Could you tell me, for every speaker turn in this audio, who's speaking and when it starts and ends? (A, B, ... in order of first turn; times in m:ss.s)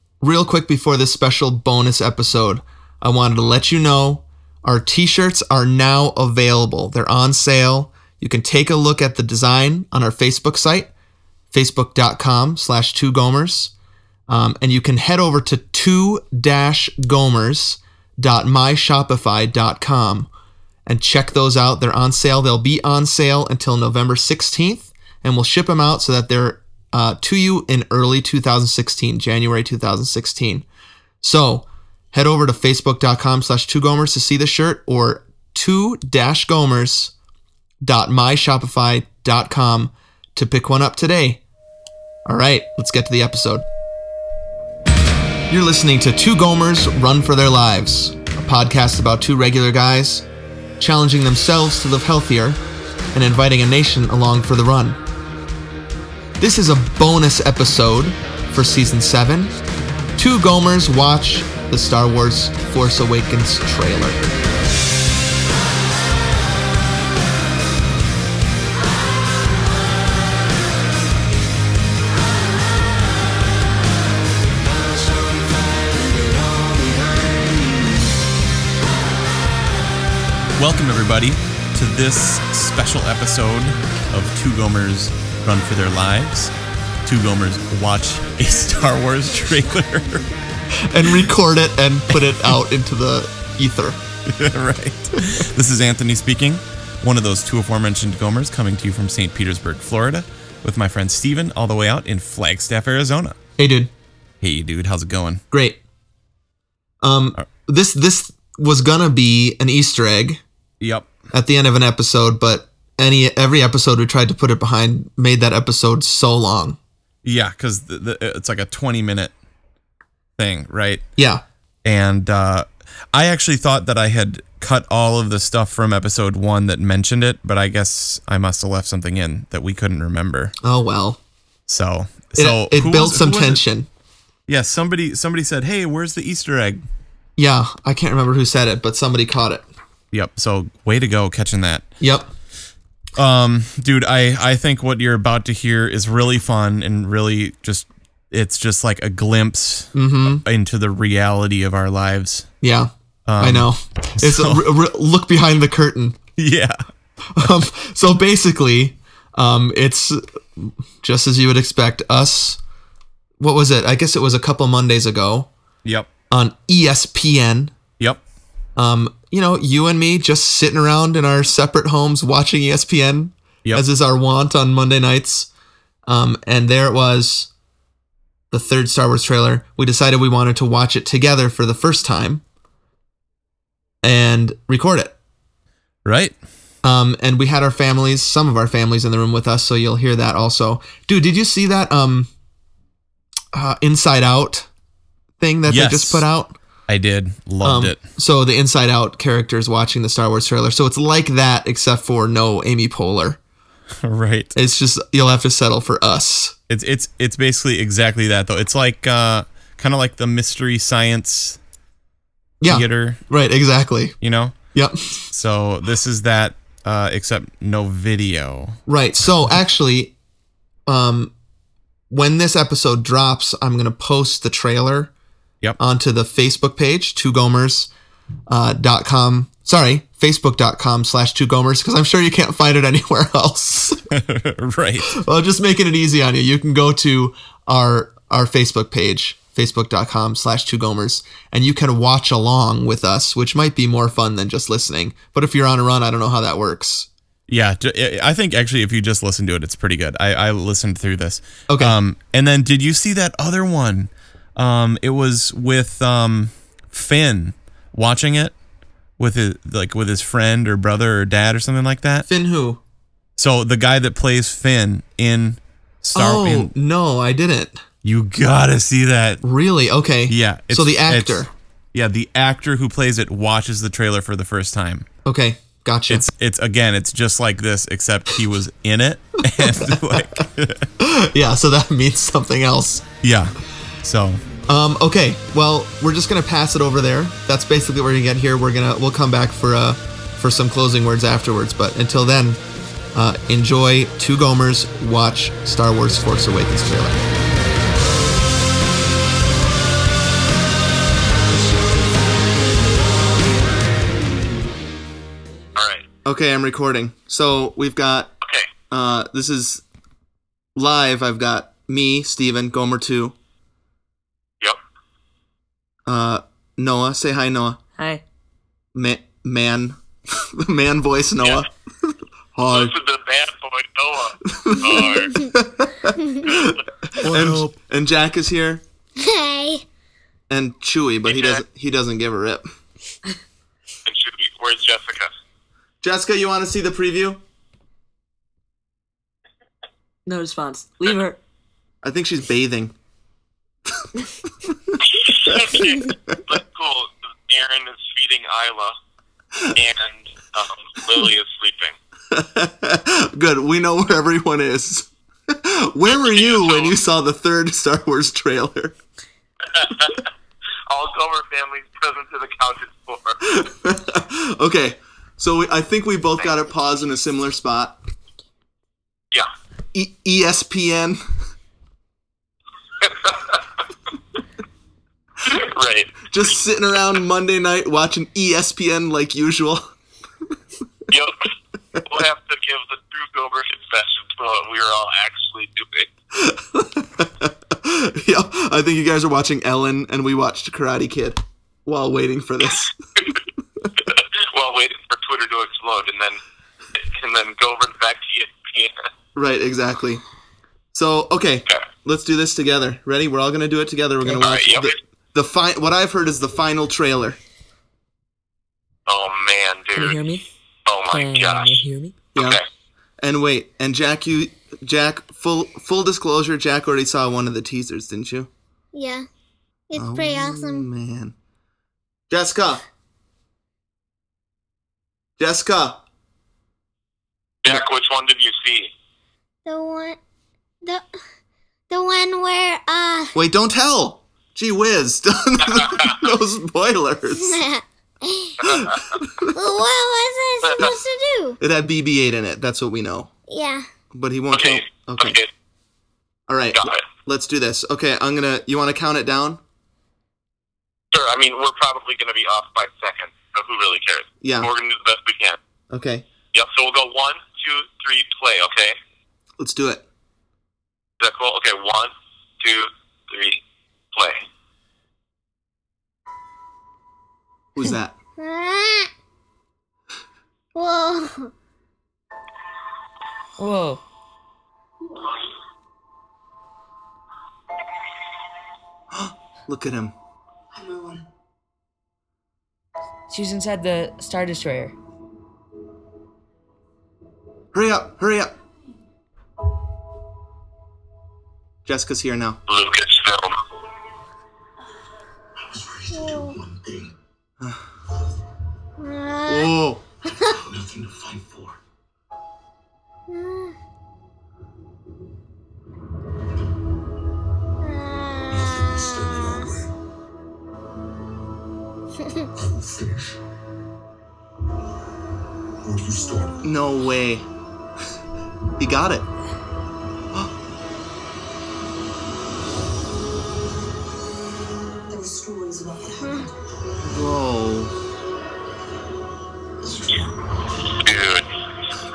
0:00.2-0:10.9 A
0:11.5-0:13.7 A
0:14.3-0:20.3 A
0:20.8-0:30.6 A
0:31.2-0:37.1 A
0:37.8-0:41.4 A
0:42.2-0:43.6 A
0:45.5-0:50.2 A
0:50.8-0:52.6 A
0:53.1-0:55.0 A
0:56.4-0:59.5 A
1:00.2-1:04.2 A
1:20.6-1:26.5 B
1:27.0-1:30.3 B
1:30.8-1:34.0 A
1:32.1-1:32.6 B
1:34.3-1:43.4 B
1:43.6-1:43.9 A
1:44.4-1:45.4 B
1:45.5-1:45.8 A
1:47.0-1:50.4 A
1:50.8-1:51.1 B
1:51.3-1:56.8 A
1:57.2-1:59.3 B
2:00.4-2:01.0 B
2:01.2-2:01.4 A
2:01.8-2:10.5 B
2:10.6-2:11.2 A
2:11.7-2:13.6 B
2:12.3-2:13.9 A
2:14.5-2:16.8 B
2:17.4-2:19.7 A
2:20.1-2:21.9 B
2:22.0-2:22.3 A
2:23.2-2:32.5 B
2:29.9-2:30.4 A
2:32.6-2:36.2 A
2:33.2-2:34.7 B
2:36.4-2:36.8 B
2:37.3-2:42.6 A
2:43.4-2:45.5 A
2:45.8-2:46.1 B
2:46.3-2:47.7 A
2:48.8-2:55.5 A
2:56.0-2:57.5 A
2:58.5-3:02.4 A
3:04.0-3:05.1 A
3:06.0-3:06.4 B
3:06.8-3:12.3 A
3:13.5-3:14.7 A
3:15.4-3:16.5 A
3:15.6-3:16.2 B
3:16.9-3:18.0 B
3:17.6-3:23.4 A
3:24.0-3:24.5 B
3:24.5-3:26.6 A
3:26.7-3:31.6 B
3:32.6-3:34.2 A
3:32.6-3:33.2 B
3:34.2-3:34.6 B
3:34.7-3:35.2 A
3:35.3-3:38.8 B
3:38.9-3:40.1 A
3:40.9-3:41.3 A
3:42.1-3:45.1 A
3:45.8-3:47.9 A
3:48.5-3:54.0 A
3:54.1-3:55.2 B
3:55.1-4:07.1 A
4:07.5-4:18.5 B
4:11.7-4:12.0 A
4:19.2-4:22.3 B
4:22.3-4:22.8 A
4:23.4-4:26.7 B
4:26.1-4:27.8 A
4:28.0-4:29.4 B
4:29.4-4:31.5 A
4:30.3-4:35.1 B
4:35.2-4:36.2 A
4:36.1-4:40.9 B
4:39.6-4:40.1 A
4:41.0-4:43.0 A
4:43.2-4:44.4 B
4:44.7-4:52.6 A
4:53.1-4:57.2 A
5:05.7-5:06.0 C
5:06.2-5:08.3 A
5:08.4-5:08.7 C
5:08.9-5:09.8 A
5:10.8-5:13.3 A
5:16.0-5:17.8 A
5:18.0-5:18.2 D
5:18.9-5:22.9 A
5:22.7-5:25.4 C
5:24.5-5:28.8 A
5:26.5-5:26.8 C
5:27.2-5:27.7 B
5:29.2-5:29.8 E
5:30.5-5:32.6 A
5:31.2-5:31.6 C
5:34.0-5:35.3 C
5:36.0-5:37.4 A
5:40.2-5:41.4 D
5:42.0-5:42.9 A
5:44.6-5:45.7 A
5:45.0-5:49.0 C
5:49.7-5:52.0 C
5:52.3-5:59.0 A
5:56.1-5:56.9 C
5:59.6-6:00.3 C
6:00.9-6:03.4 C
6:03.4-6:08.0 A
6:09.9-6:11.2 A
6:13.0-6:13.6 C
6:15.4-6:16.5 C
6:16.3-6:19.9 A
6:21.1-6:21.5 C
6:22.0-6:26.1 C
6:26.3-6:32.9 A
6:32.6-6:33.4 C
6:34.0-6:36.4 C
6:36.9-6:39.1 C
6:39.3-6:40.2 A
6:40.9-6:47.4 A
6:44.4-6:44.9 C
6:49.1-6:50.2 C
6:50.0-6:50.5 D
6:50.8-6:51.8 C
6:51.1-6:52.2 D
6:52.3-6:52.6 C
6:52.4-6:52.6 A
6:53.2-6:58.5 A
6:58.9-6:59.2 E
6:59.9-7:00.9 E
7:00.0-7:01.3 A
7:02.3-7:02.8 A
7:05.4-7:06.0 A
7:07.6-7:08.9 C
7:09.6-7:10.2 E
7:11.9-7:13.3 E
7:13.3-7:17.6 A
7:15.7-7:16.1 C
7:17.4-7:18.6 E
7:18.6-7:19.6 A
7:18.7-7:18.9 C
7:19.5-7:21.6 E
7:20.6-7:20.9 C
7:21.6-7:23.3 A
7:23.5-7:23.8 E
7:24.1-7:25.4 A
7:24.5-7:25.5 C
7:26.5-7:29.6 A
7:26.7-7:27.0 C
7:31.1-7:35.6 C
7:34.4-7:34.7 A
7:35.9-7:36.2 A
7:36.5-7:39.0 C
7:39.6-7:40.0 A
7:41.2-7:43.6 C
7:44.1-7:44.4 C
7:47.7-7:48.1 A
7:48.4-7:49.1 E
7:50.7-7:51.5 E
7:53.6-7:54.0 D
7:55.0-7:55.3 F
7:59.1-8:00.1 A
8:00.7-8:01.2 F
8:03.3-8:04.9 D
8:07.7-8:08.5 A
8:11.8-8:12.6 A
8:12.7-8:13.6 C
8:15.6-8:17.1 G
8:16.1-8:16.6 E
8:19.0-8:19.7 E
8:19.5-8:20.0 A
8:20.4-8:21.8 G
8:23.3-8:23.7 E
8:27.8-8:29.7 E
8:28.5-8:29.9 G
8:32.6-8:33.4 G
8:35.8-8:36.7 G
8:36.6-8:37.4 A
8:38.8-8:39.3 A
8:45.1-8:46.6 F
8:47.0-8:47.9 A
8:49.8-8:50.9 G
8:51.0-8:51.5 C